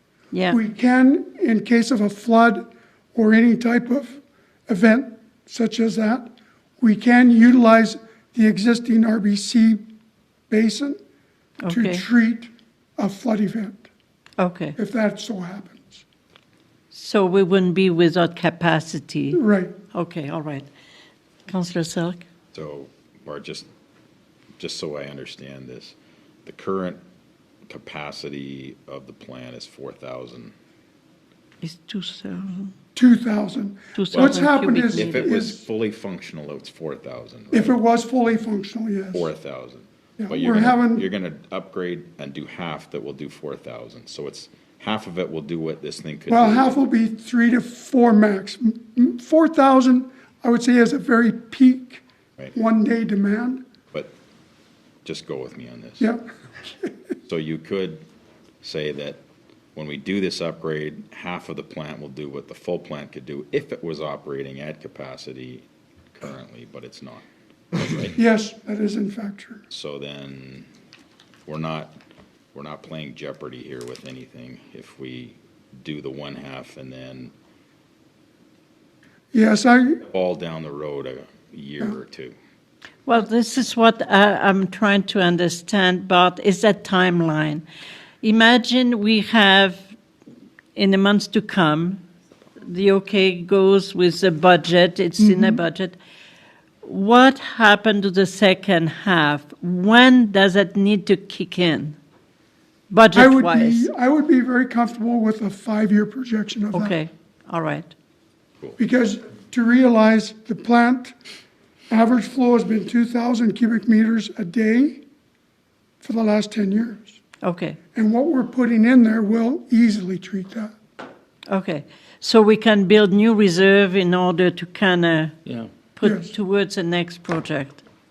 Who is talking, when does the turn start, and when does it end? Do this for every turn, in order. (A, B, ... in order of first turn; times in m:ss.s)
0:00.3-0:00.6 A
0:00.5-0:09.8 B
0:10.5-0:11.0 B
0:11.6-0:12.0 A
0:11.7-0:13.9 B
0:14.4-0:14.8 A
0:14.8-0:16.0 B
0:16.9-0:19.4 A
0:19.3-0:19.7 B
0:19.9-0:20.7 A
0:21.5-0:22.2 A
0:22.5-0:23.7 C
0:24.6-0:27.0 C
0:27.7-0:30.5 C
0:31.6-0:32.7 A
0:33.0-0:35.6 B
0:34.0-0:35.3 A
0:34.1-0:34.4 C
0:35.0-0:37.8 C
0:37.5-0:39.3 B
0:39.1-0:46.8 C
0:40.2-0:41.0 B
0:46.3-0:53.6 B
0:55.0-0:56.1 C
0:56.0-0:56.3 B
0:57.3-0:58.0 C
0:58.6-0:59.2 C
0:59.8-1:05.6 C
1:06.2-1:08.2 C
1:08.2-1:09.6 B
1:09.7-1:10.7 C
1:11.5-1:12.0 C
1:12.5-1:17.3 C
1:19.3-1:20.0 B
1:20.1-1:22.4 C
1:23.1-1:27.6 A
1:28.2-1:29.9 A
1:30.8-1:32.0 A
1:32.6-1:36.0 A
1:35.2-1:35.6 B
1:36.8-1:42.0 A
1:42.9-1:43.9 A
1:43.2-1:47.0 B
1:46.7-1:47.9 A
1:48.8-1:51.2 B
1:51.9-1:55.0 B
1:56.0-1:57.2 B
1:57.4-1:57.8 A
1:58.0-2:00.7 B
2:01.5-2:05.4 A
2:06.0-2:07.8 A
2:06.0-2:06.3 B